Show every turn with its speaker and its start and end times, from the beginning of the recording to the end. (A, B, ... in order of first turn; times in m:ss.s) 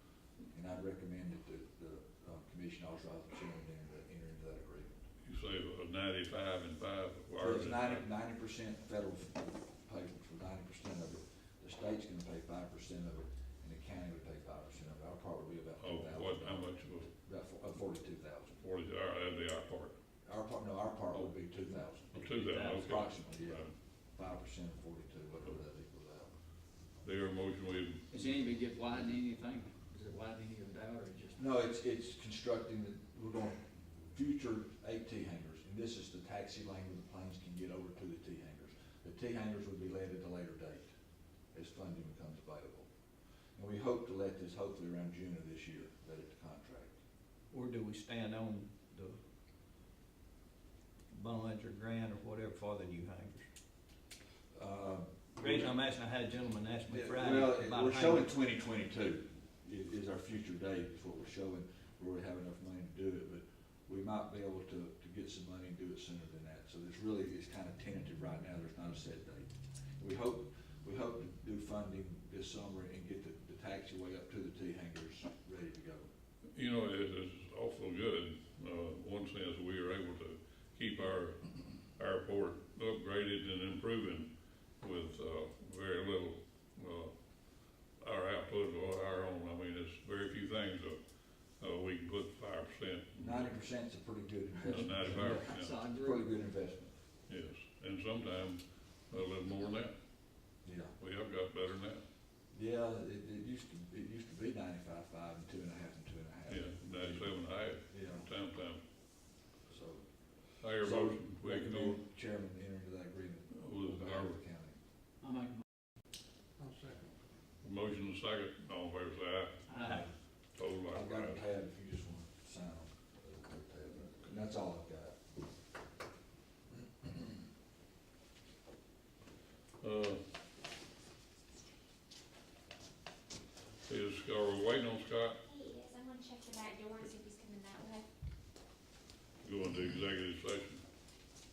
0:00.5-0:05.0 A
0:05.2-0:08.1 B
0:07.4-0:18.5 A
0:15.8-0:17.1 B
0:18.6-0:20.0 B
0:20.3-0:26.3 A
0:22.1-0:23.7 B
0:22.2-0:22.8 C
0:27.0-0:28.0 B
0:28.1-0:31.4 D
0:31.4-0:33.6 A
0:34.1-0:40.9 A
0:41.5-0:42.9 A
0:43.6-0:47.0 A
0:47.5-0:49.2 C
0:51.1-0:53.5 C
0:54.5-0:55.8 A
0:55.4-0:58.3 C
0:56.9-1:16.1 A
1:16.6-1:24.3 B
1:24.8-1:27.1 B
1:28.0-1:31.0 B
1:31.6-1:33.6 B
1:33.2-1:36.9 A
1:34.6-1:35.8 B
1:35.1-1:36.3 D
1:37.3-1:39.9 B
1:40.6-1:40.9 A
1:41.0-1:42.0 B
1:42.5-1:47.4 A
1:46.5-1:48.8 B
1:47.9-1:48.3 A
1:49.7-1:50.0 A
1:50.6-1:52.0 B
1:50.8-1:54.8 A
1:53.5-1:54.4 B
1:55.2-1:55.6 D
1:56.6-1:57.1 A
1:57.6-1:59.8 B
1:59.7-2:00.0 D
1:59.8-2:00.1 A
2:00.6-2:01.4 B
2:00.8-2:05.2 A
2:06.8-2:07.3 A
2:09.8-2:10.2 B
2:13.9-2:15.4 B
2:15.4-2:18.1 E
2:19.4-2:20.8 B